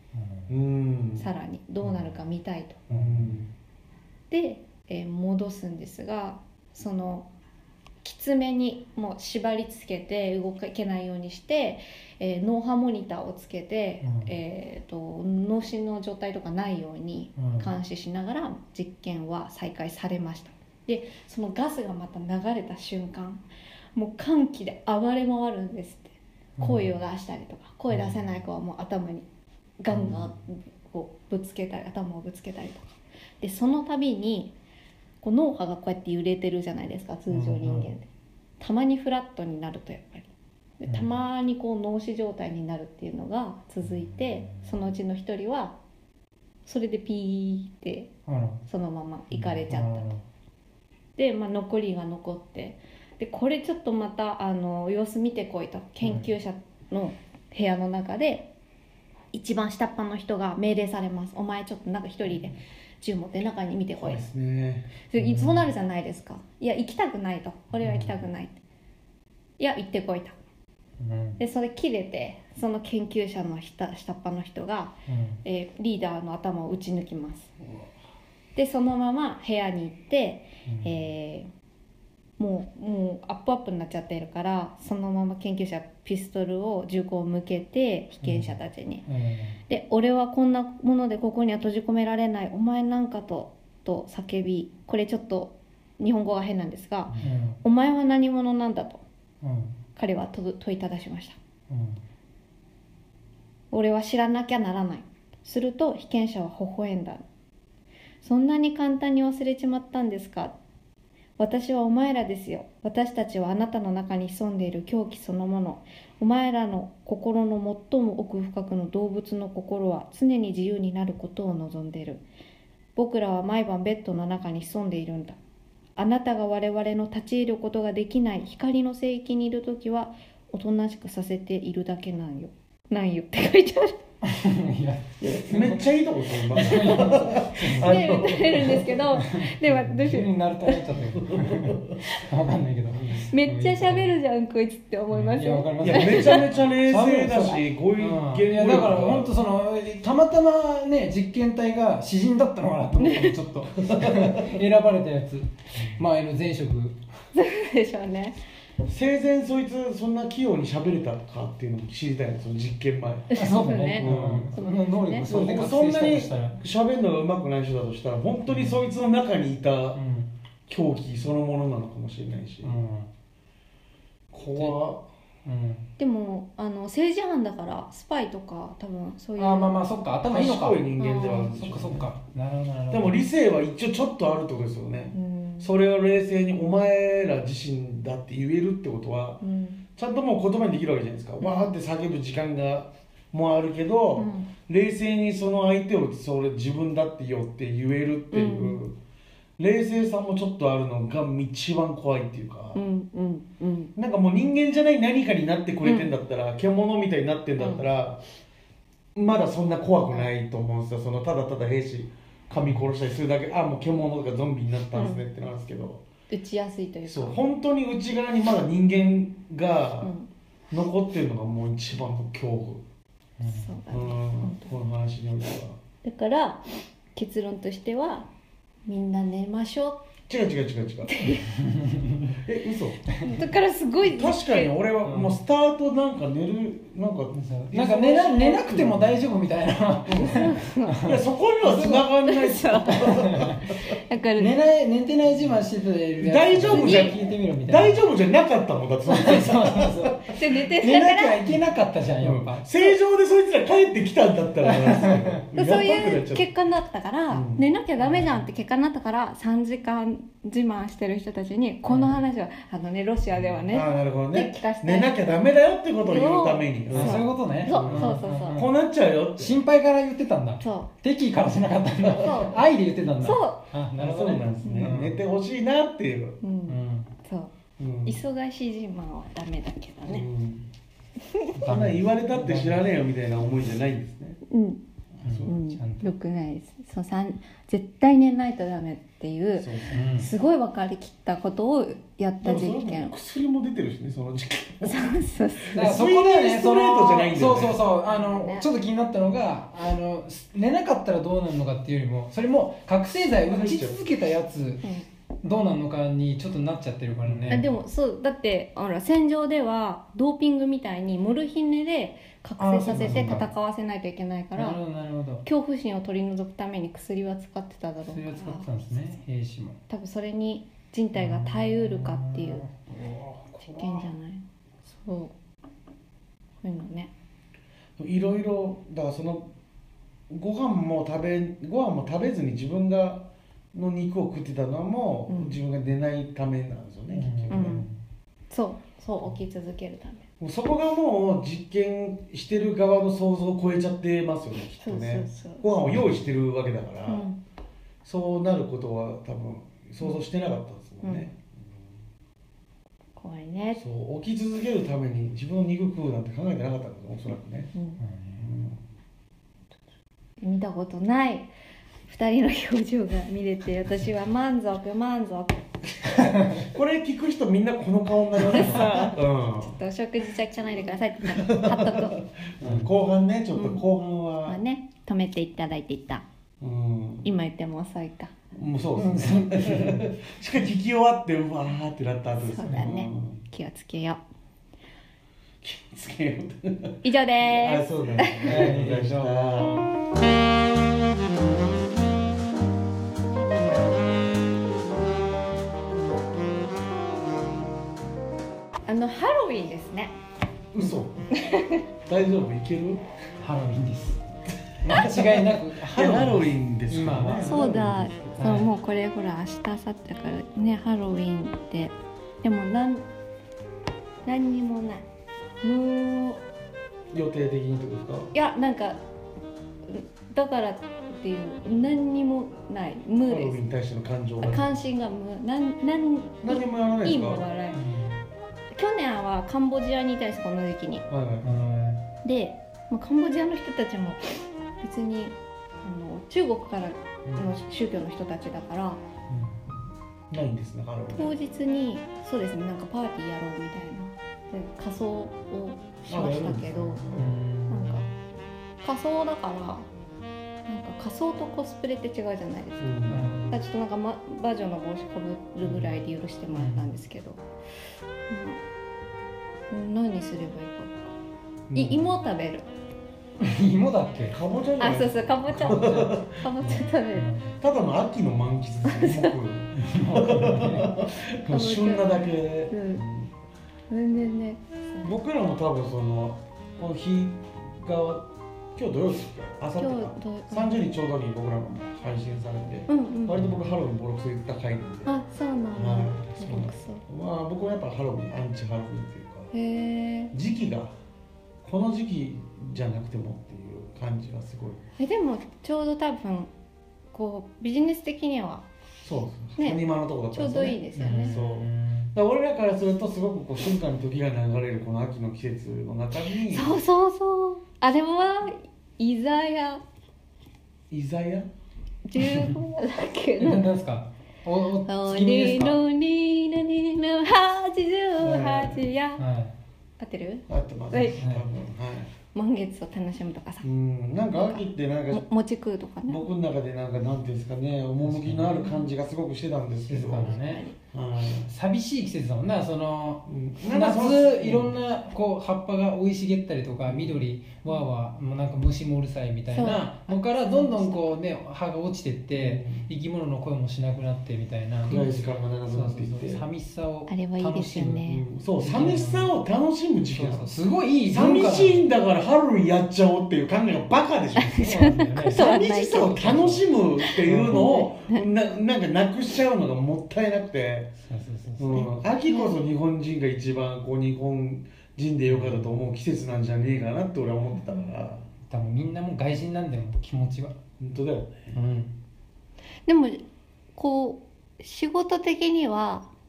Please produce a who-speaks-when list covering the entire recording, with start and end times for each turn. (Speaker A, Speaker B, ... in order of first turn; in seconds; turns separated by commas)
Speaker A: 0.1-0.5, Speaker B: 0.5-1.3, Speaker C: 1.2-2.8, Speaker A: 2.9-3.3, Speaker B: 2.9-3.5, Speaker C: 4.3-7.3, Speaker C: 8.0-23.4, Speaker A: 14.0-14.3, Speaker A: 17.4-17.7, Speaker C: 23.9-29.2, Speaker A: 26.6-26.9, Speaker C: 29.8-34.5, Speaker C: 35.2-38.1, Speaker A: 37.3-37.9, Speaker C: 38.6-45.8, Speaker A: 40.9-41.1, Speaker A: 43.9-44.7, Speaker C: 46.6-48.1, Speaker A: 48.3-48.6, Speaker C: 48.6-50.1, Speaker A: 49.3-50.2, Speaker C: 51.2-58.5, Speaker C: 59.3-64.2, Speaker B: 64.0-64.9, Speaker C: 65.1-68.6, Speaker A: 65.2-65.7, Speaker A: 67.8-68.3, Speaker C: 69.6-70.4, Speaker A: 71.0-71.4, Speaker C: 71.4-77.5, Speaker A: 75.1-75.4, Speaker A: 77.6-77.9, Speaker C: 78.5-81.5, Speaker A: 80.7-80.9, Speaker C: 82.4-89.0, Speaker A: 88.2-89.6, Speaker C: 89.7-99.0, Speaker A: 97.1-97.6, Speaker A: 99.4-99.8, Speaker C: 99.9-101.4, Speaker A: 101.7-102.0, Speaker C: 103.7-107.2, Speaker C: 108.2-110.5, Speaker C: 111.4-122.2, Speaker C: 123.0-125.4, Speaker C: 126.0-134.0, Speaker A: 134.2-135.9, Speaker B: 135.2-139.0, Speaker A: 136.5-144.2, Speaker C: 136.6-140.8, Speaker B: 141.1-141.8, Speaker B: 142.9-143.3, Speaker C: 143.3-146.4, Speaker A: 145.1-157.0, Speaker B: 145.8-149.3, Speaker C: 153.0-153.3, Speaker B: 153.8-154.6, Speaker B: 155.8-156.0, Speaker C: 157.3-158.4, Speaker B: 158.8-163.4, Speaker C: 163.3-165.3, Speaker A: 163.4-166.6, Speaker B: 164.0-164.5, Speaker B: 165.2-170.0, Speaker A: 168.5-168.8, Speaker A: 169.9-170.3, Speaker B: 170.7-172.8, Speaker A: 172.6-173.1, Speaker B: 174.3-175.1, Speaker A: 175.4-175.9, Speaker C: 176.0-179.8, Speaker A: 179.4-183.2, Speaker B: 180.3-182.1, Speaker C: 181.0-181.5, Speaker B: 182.9-189.4, Speaker C: 185.1-185.7, Speaker C: 189.4-189.8, Speaker B: 189.9-199.0, Speaker C: 191.4-191.7, Speaker C: 194.2-194.5, Speaker C: 198.3-198.8, Speaker B: 199.6-202.8, Speaker C: 202.7-203.9, Speaker B: 203.9-208.2, Speaker C: 205.8-206.1, Speaker C: 207.6-207.8, Speaker B: 209.1-216.0, Speaker C: 214.9-215.2, Speaker C: 216.3-217.4, Speaker B: 217.1-220.1, Speaker C: 220.0-220.3, Speaker B: 220.7-222.8, Speaker A: 223.4-223.8, Speaker C: 223.4-224.7, Speaker B: 223.9-225.8, Speaker C: 226.0-228.3, Speaker C: 228.9-230.1, Speaker B: 230.3-231.3, Speaker C: 231.1-231.5, Speaker A: 231.7-232.3, Speaker B: 232.3-233.1, Speaker C: 233.2-234.7, Speaker B: 234.0-239.2, Speaker A: 235.0-235.3, Speaker A: 237.3-241.2, Speaker B: 240.1-243.9, Speaker C: 240.2-241.0, Speaker C: 241.7-244.5, Speaker A: 242.9-243.6, Speaker A: 244.4-248.0, Speaker B: 246.2-250.4, Speaker C: 246.7-247.2, Speaker A: 249.1-252.7, Speaker C: 250.3-251.4, Speaker B: 252.2-256.5, Speaker A: 254.6-255.4, Speaker C: 255.5-265.5, Speaker B: 257.3-257.6, Speaker A: 258.0-258.4, Speaker A: 261.9-262.2, Speaker B: 263.7-269.6, Speaker C: 266.1-268.6, Speaker A: 266.9-268.7, Speaker A: 269.4-275.2, Speaker C: 270.6-270.9, Speaker C: 272.2-272.6, Speaker C: 273.2-273.7, Speaker B: 274.0-276.4, Speaker C: 276.4-277.5, Speaker A: 276.7-277.1, Speaker B: 277.8-278.2, Speaker C: 278.0-280.3, Speaker B: 280.1-280.7, Speaker C: 281.2-281.6, Speaker A: 281.6-282.8, Speaker B: 281.6-284.4, Speaker C: 284.5-284.8, Speaker B: 285.2-285.6, Speaker A: 285.2-286.1, Speaker C: 285.4-293.1, Speaker B: 289.6-290.0, Speaker A: 289.9-290.3, Speaker B: 292.4-295.1, Speaker C: 294.8-296.0, Speaker B: 295.6-297.8, Speaker A: 295.7-304.8, Speaker C: 298.0-298.7, Speaker B: 303.2-304.0, Speaker A: 305.4-307.6, Speaker B: 307.2-307.6, Speaker C: 307.5-314.8, Speaker A: 312.6-313.4, Speaker B: 312.9-313.4, Speaker A: 314.5-315.4, Speaker C: 315.4-319.2, Speaker A: 318.0-319.8, Speaker C: 319.9-322.6, Speaker A: 321.1-322.9, Speaker B: 323.1-324.0, Speaker C: 323.6-325.3, Speaker C: 326.6-327.1, Speaker B: 328.0-329.5, Speaker B: 330.3-337.9, Speaker C: 335.3-335.6, Speaker A: 337.1-338.0, Speaker C: 337.5-337.9, Speaker C: 338.5-340.2, Speaker B: 340.4-347.2, Speaker C: 344.8-345.6, Speaker C: 347.1-347.4, Speaker B: 348.0-351.6, Speaker C: 351.0-351.3, Speaker C: 353.2-353.8, Speaker B: 353.8-357.7, Speaker C: 357.7-358.0, Speaker A: 358.0-358.4, Speaker B: 358.4-358.8, Speaker C: 360.4-361.5, Speaker C: 362.1-366.2, Speaker B: 366.5-369.8, Speaker C: 368.4-372.2, Speaker B: 371.3-374.6, Speaker A: 372.6-372.9, Speaker C: 373.5-373.8, Speaker C: 374.4-376.2, Speaker B: 376.6-377.3, Speaker C: 377.2-378.3, Speaker B: 378.5-383.4, Speaker A: 379.0-380.1, Speaker C: 382.4-384.2, Speaker B: 385.6-389.8, Speaker C: 387.0-388.7, Speaker A: 388.4-389.6, Speaker C: 398.9-400.1, Speaker B: 400.7-401.2, Speaker C: 401.3-401.8, Speaker B: 402.1-403.0, Speaker A: 403.4-404.2, Speaker A: 404.8-407.6, Speaker B: 404.9-408.6, Speaker C: 407.4-413.1, Speaker A: 408.4-408.7, Speaker C: 414.2-415.0, Speaker C: 415.6-416.4, Speaker B: 417.1-418.3, Speaker C: 418.3-419.0, Speaker C: 419.9-423.6, Speaker B: 423.3-424.7, Speaker C: 424.4-427.8, Speaker B: 426.4-427.4, Speaker A: 427.7-428.2, Speaker C: 428.7-431.1, Speaker B: 431.1-431.6, Speaker A: 431.4-432.0, Speaker C: 432.2-439.0, Speaker B: 437.2-437.6, Speaker A: 439.3-439.6, Speaker B: 440.3-441.3, Speaker C: 441.1-447.1, Speaker B: 446.1-447.3, Speaker A: 447.1-448.1, Speaker C: 447.7-448.1, Speaker C: 448.8-449.9, Speaker C: 450.6-457.4, Speaker B: 452.8-453.4, Speaker A: 453.1-453.6, Speaker A: 456.5-456.9, Speaker C: 458.3-458.6, Speaker C: 459.7-461.0, Speaker B: 461.7-462.2, Speaker C: 461.7-462.7, Speaker A: 463.4-464.4, Speaker B: 464.3-466.4, Speaker C: 464.8-467.3, Speaker A: 465.5-467.6, Speaker B: 467.6-473.3, Speaker C: 468.8-469.3, Speaker A: 469.8-470.9, Speaker C: 471.5-472.1, Speaker C: 472.7-473.1, Speaker C: 473.9-475.1, Speaker B: 475.0-485.1, Speaker C: 479.8-480.8, Speaker C: 482.9-483.4, Speaker C: 485.1-487.0, Speaker B: 485.7-489.5, Speaker C: 489.5-490.3, Speaker B: 490.3-490.9, Speaker B: 491.6-494.8, Speaker C: 495.0-496.5, Speaker C: 497.1-498.6, Speaker B: 499.0-506.7, Speaker C: 499.6-501.3, Speaker A: 500.9-502.1, Speaker C: 506.5-509.8, Speaker B: 510.9-511.5, Speaker C: 512.1-513.7, Speaker A: 513.4-515.8, Speaker C: 514.9-519.2, Speaker B: 518.2-518.8, Speaker A: 519.2-519.5, Speaker C: 520.0-521.2, Speaker B: 520.5-522.1, Speaker C: 522.3-523.7, Speaker B: 523.6-525.2, Speaker C: 524.3-526.2, Speaker B: 526.1-531.5, Speaker A: 528.0-528.7, Speaker A: 529.8-530.6, Speaker C: 530.3-530.8, Speaker A: 531.5-545.2, Speaker B: 533.2-534.7, Speaker B: 536.9-537.2, Speaker C: 539.5-541.2, Speaker B: 542.3-542.9, Speaker B: 544.8-546.4, Speaker A: 545.7-548.1, Speaker C: 547.1-548.2, Speaker B: 548.1-550.5, Speaker A: 548.6-549.3, Speaker A: 550.1-551.8, Speaker B: 551.0-560.9, Speaker C: 554.4-556.3, Speaker A: 554.6-556.7, Speaker C: 557.0-558.2, Speaker A: 557.2-557.7, Speaker A: 561.0-561.9, Speaker B: 561.6-568.3, Speaker C: 561.7-562.5, Speaker A: 565.3-565.7, Speaker A: 568.5-570.6, Speaker B: 570.8-571.6, Speaker A: 571.5-571.9, Speaker C: 572.9-576.1